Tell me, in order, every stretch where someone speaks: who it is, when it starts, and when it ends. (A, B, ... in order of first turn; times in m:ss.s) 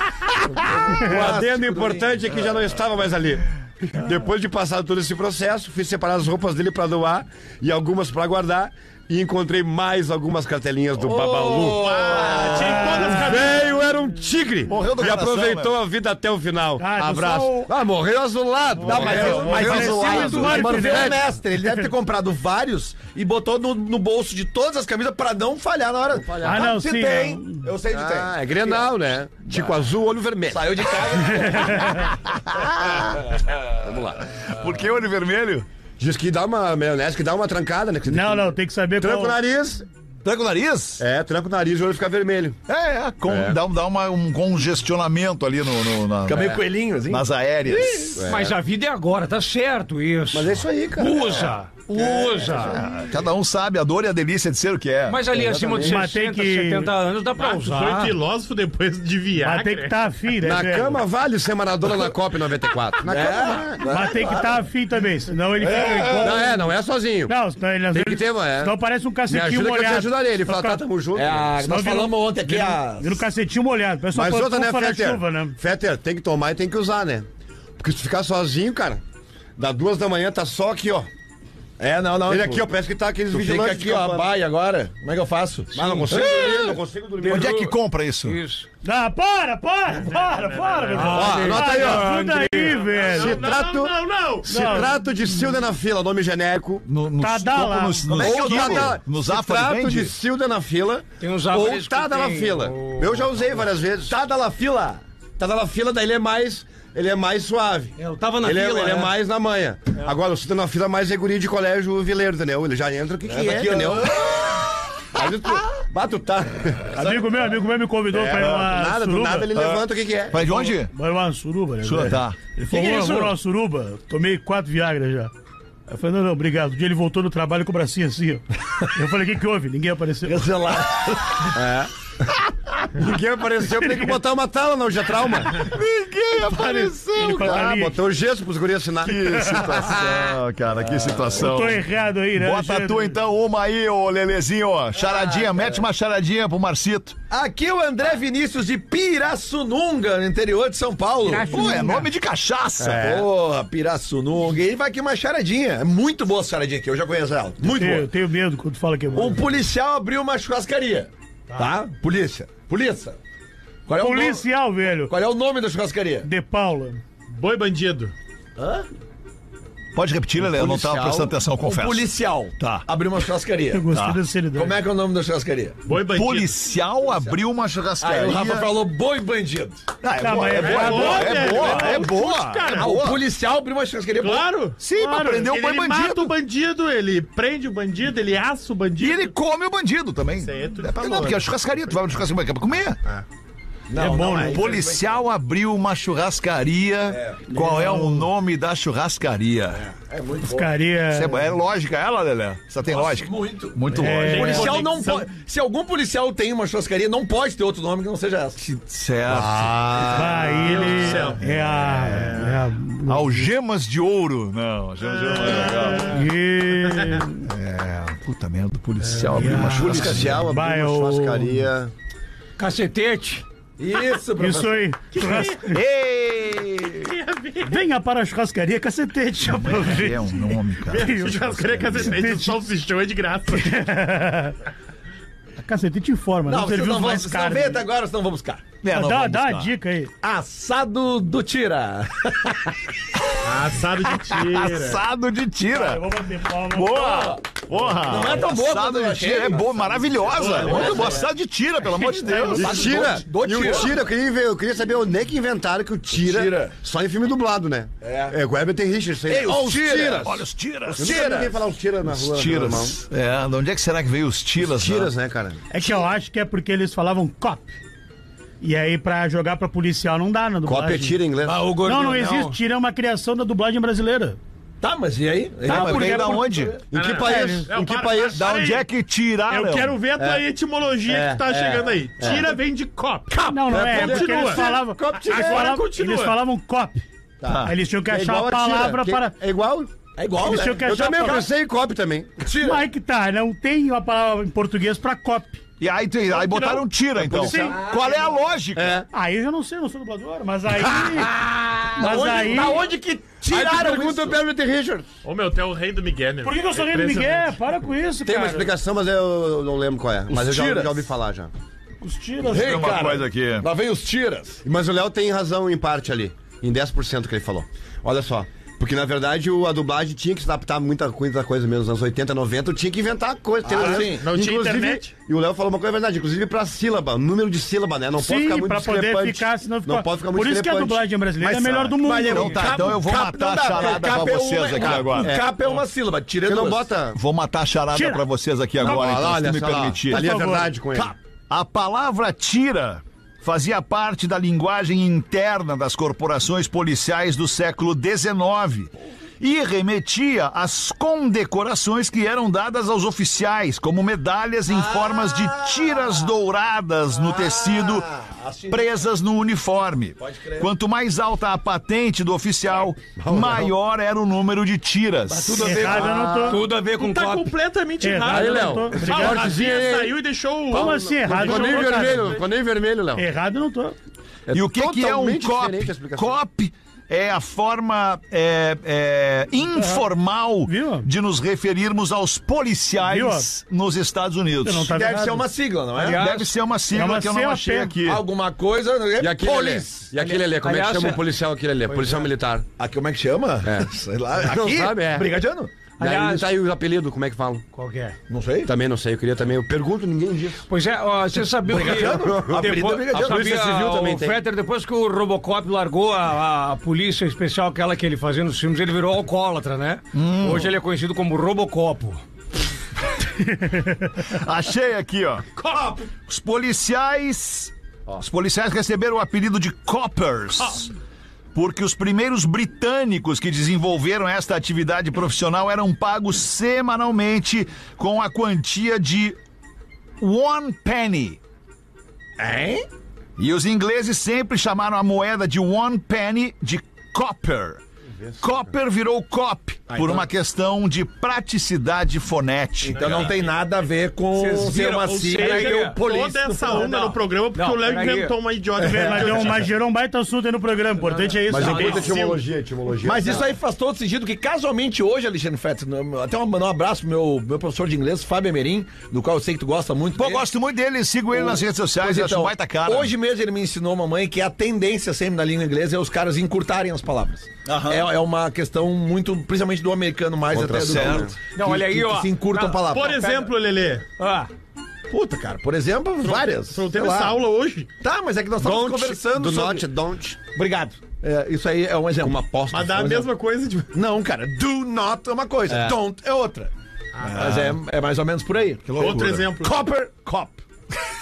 0:00.4-0:02.3 A
0:00.9-0:21.2 B
0:11.0-0:13.1 A
0:11.6-0:13.7 C
0:12.6-0:13.4 D
0:14.7-0:15.7 E
0:16.8-0:17.7 D
0:18.8-0:28.9 A
0:18.9-0:20.7 E
0:19.0-0:21.2 D
0:26.1-0:26.7 B
0:26.4-0:27.7 D
0:27.9-0:31.2 B
0:29.4-0:29.8 A
0:30.5-0:32.1 A
0:31.4-0:32.0 D
0:31.9-0:33.2 E
0:33.8-0:34.2 B
0:34.5-0:35.6 E
0:36.0-0:39.8 B
0:38.1-0:39.4 D
0:40.2-0:41.0 E
0:41.0-0:42.6 B
0:42.7-0:48.2 E
0:43.2-0:43.6 B
0:46.2-0:47.9 A
0:48.0-0:52.9 F
0:48.2-0:48.6 B
0:50.3-0:51.2 B
0:52.0-0:52.8 B
0:52.6-0:55.2 E
0:55.1-0:58.2 F
0:55.3-0:56.0 B
0:55.8-0:56.9 D
0:57.4-1:00.1 C
0:59.4-1:01.0 D
1:00.4-1:03.8 B
1:03.0-1:04.6 A
1:03.9-1:06.7 D
1:05.6-1:06.4 A
1:06.2-1:07.3 B
1:07.3-1:10.8 D
1:07.9-1:08.7 B
1:09.3-1:11.5 B
1:11.1-1:13.2 A
1:11.6-1:15.6 D
1:14.1-1:17.3 B
1:17.8-1:19.0 B
1:19.6-1:21.1 B
1:21.8-1:22.7 A
1:22.2-1:24.3 B
1:23.3-1:26.4 A
1:25.7-1:27.6 B
1:26.1-1:26.7 E
1:27.2-1:28.7 F
1:27.2-1:28.4 E
1:28.8-1:33.5 D
1:30.0-1:31.4 C
1:30.9-1:33.0 F
1:31.1-1:32.1 B
1:32.8-1:34.9 C
1:33.1-1:36.8 B
1:34.5-1:35.0 D
1:36.8-1:40.1 E
1:37.2-1:38.5 D
1:38.1-1:44.2 B
1:38.5-1:38.8 A
1:41.2-1:43.3 F
1:44.1-1:45.0 A
1:45.4-1:54.1 B
1:48.0-1:49.1 F
1:53.3-1:54.3 A
1:55.1-1:56.9 B
1:56.9-1:59.5 D
1:57.0-1:57.3 E
1:58.1-2:00.6 B
1:59.5-2:00.9 E
2:00.9-2:05.3 D
2:01.8-2:02.5 E
2:02.7-2:03.3 A
2:05.9-2:10.5 D
2:10.2-2:11.5 A
2:11.5-2:11.9 B
2:12.9-2:15.6 B
2:15.5-2:17.7 E
2:16.5-2:18.0 D
2:17.2-2:20.4 B
2:19.0-2:27.2 E
2:21.4-2:23.2 D
2:25.0-2:25.8 A
2:27.3-2:31.9 A
2:31.2-2:32.1 D
2:31.4-2:33.1 E
2:32.8-2:33.3 B
2:32.8-2:38.1 A
2:37.6-2:39.4 D
2:39.1-2:43.2 A
2:43.9-2:44.5 A
2:44.0-2:45.1 D
2:45.0-2:46.3 A
2:46.2-2:47.0 D
2:47.3-2:48.1 C
2:48.6-2:48.9 A
2:49.9-2:52.9 E
2:50.4-2:53.9 A
2:53.7-2:54.8 D
2:53.9-2:54.2 E
2:54.5-2:55.8 A
2:55.9-2:56.6 C
2:56.0-2:58.8 E
2:57.0-2:57.4 A
2:58.0-2:59.9 A
3:00.0-3:03.2 E
3:00.2-3:02.1 D
3:00.5-3:01.9 A
3:00.6-3:02.9 C
3:02.7-3:04.5 A
3:04.2-3:09.3 C
3:04.8-3:06.3 E
3:09.0-3:13.0 E
3:10.4-3:11.5 C
3:13.9-3:15.2 A
3:14.0-3:14.7 D
3:14.1-3:19.8 E
3:17.1-3:17.4 A
3:17.5-3:18.3 D
3:19.7-3:20.7 A
3:20.4-3:21.5 D
3:21.1-3:24.6 E
3:22.8-3:28.6 A
3:23.9-3:24.8 D
3:24.2-3:25.3 C
3:28.6-3:32.5 E
3:29.3-3:30.3 B
3:30.1-3:33.5 D
3:30.6-3:31.4 C
3:32.0-3:32.6 C
3:33.1-3:36.2 E
3:35.7-3:36.0 C
3:35.9-3:37.4 D
3:36.9-3:37.2 C
3:37.4-3:40.4 E
3:39.2-3:39.9 F
3:39.5-3:41.7 D
3:39.6-3:41.9 B
3:39.8-3:40.4 A
3:42.6-3:43.4 F
3:43.8-3:44.8 A
3:44.4-3:45.8 D
3:45.1-3:45.6 C
3:45.2-3:47.1 E
3:47.0-3:47.8 C
3:47.6-3:51.3 D
3:49.4-3:52.3 E
3:50.9-3:53.9 C
3:51.9-3:52.7 D
3:53.5-3:54.6 D
3:55.6-3:57.8 D
3:56.4-3:58.7 A
3:58.8-3:59.7 E
3:58.9-4:00.1 D
4:00.2-4:02.8 A
4:03.4-4:05.0 C
4:04.3-4:06.1 E
4:05.7-4:07.4 D
4:06.7-4:13.0 E
4:08.0-4:11.3 A
4:10.3-4:10.9 C
4:12.0-4:14.0 A
4:12.2-4:13.2 D
4:12.6-4:20.4 B
4:16.1-4:16.7 A
4:18.0-4:18.3 A
4:19.3-4:21.5 A
4:20.2-4:21.2 E
4:20.9-4:23.0 B
4:22.1-4:25.1 E
4:24.6-4:25.6 B
4:25.7-4:27.7 D
4:28.6-4:31.2 D
4:30.6-4:31.6 B
4:31.4-4:32.6 F
4:31.8-4:34.4 D
4:34.8-4:36.8 A
4:35.6-4:36.8 E
4:35.6-4:36.5 D
4:36.9-4:38.5 B
4:36.9-4:38.8 C
4:37.2-4:37.7 D
4:38.3-4:40.0 E
4:39.5-4:46.4 C
4:41.1-4:42.5 B
4:43.3-4:45.6 A
4:43.5-4:47.0 D
4:43.7-4:45.7 B
4:47.4-4:47.7 E
4:47.6-4:49.3 D
4:48.0-4:52.5 B
4:50.2-4:50.8 A
4:50.4-4:51.5 D
4:52.4-4:52.8 A
4:52.6-4:55.6 D
4:55.8-4:59.0 E
4:56.3-4:56.8 C
4:57.3-4:57.8 D
4:57.4-4:58.2 A
4:58.8-4:59.0 B
4:59.1-5:01.3 D
5:01.1-5:04.4 A
5:02.0-5:02.8 D
5:02.0-5:05.1 B
5:05.2-5:07.6 C
5:06.4-5:08.7 D
5:08.2-5:11.5 B
5:10.3-5:11.0 A
5:12.0-5:12.8 D
5:12.5-5:14.6 A
5:12.5-5:13.7 E
5:14.6-5:31.9 B
5:23.6-5:24.3 A
5:23.8-5:25.1 C
5:28.2-5:32.7 D
5:31.4-5:35.4 E
5:32.0-5:36.9 A
5:34.8-5:35.6 B
5:36.4-5:37.2 B
5:37.1-5:40.4 E
5:37.9-5:38.2 D
5:38.8-5:41.1 B
5:40.1-5:40.7 D
5:40.9-5:58.1 E
5:54.7-5:56.3 A
5:57.1-5:59.0 A
5:58.7-6:05.9 E
6:00.2-6:00.7 A
6:03.2-6:03.7 B
6:05.3-6:06.6 A
6:05.5-6:07.5 F
6:05.6-6:06.6 D
6:06.9-6:12.4 C
6:08.0-6:09.6 D
6:08.3-6:10.2 B
6:10.7-6:13.2 B
6:10.7-6:12.3 D
6:13.2-6:14.0 D
6:14.5-6:16.4 B
6:14.5-6:25.0 E
6:19.7-6:20.0 D
6:20.6-6:21.1 D
6:23.0-6:23.5 D
6:24.6-6:25.4 D
6:24.9-6:26.2 A
6:25.9-6:26.5 F
6:26.1-6:28.2 E
6:26.9-6:28.0 D
6:28.0-6:30.1 A
6:29.2-6:32.6 B
6:30.1-6:31.2 F
6:32.8-6:35.8 A
6:33.6-6:35.3 B
6:36.0-6:36.5 F
6:36.0-6:37.6 B
6:37.7-6:38.2 F
6:38.3-6:38.7 A
6:38.6-6:40.6 B
6:40.7-6:52.2 F
6:41.6-6:43.7 A
6:41.8-6:44.4 B
6:50.1-6:50.7 E
6:53.5-6:54.1 D
6:54.2-6:55.5 E
6:56.2-7:00.9 E
7:01.5-7:09.4 E
7:10.2-7:11.4 E
7:12.4-7:12.8 A
7:13.4-7:17.8 E
7:18.4-7:23.3 E
7:19.9-7:20.3 A
7:22.8-7:26.9 A
7:22.9-7:23.5 C
7:24.3-7:28.4 F
7:25.0-7:29.7 C
7:28.8-7:32.1 D
7:28.8-7:29.5 A
7:31.0-7:32.2 F
7:31.5-7:33.5 B
7:31.6-7:31.9 A
7:31.6-7:32.4 C
7:33.0-7:40.5 A
7:40.2-7:43.1 E
7:41.3-7:53.2 A
7:47.6-7:48.1 E
7:50.5-7:51.4 B
7:50.8-7:51.3 E
7:51.6-7:53.5 F
7:52.9-7:54.0 C
7:54.2-7:54.5 F
7:55.1-7:57.4 A
7:56.2-7:57.9 C
7:58.0-7:59.8 A
7:58.6-8:00.4 B
8:00.5-8:02.4 A
8:02.2-8:03.2 B
8:02.7-8:03.9 C
8:03.0-8:03.2 A
8:03.9-8:06.7 A
8:05.7-8:06.0 B
8:07.1-8:07.4 C
8:07.2-8:10.6 A
8:07.3-8:07.8 E
8:08.9-8:09.5 E
8:09.0-8:09.8 C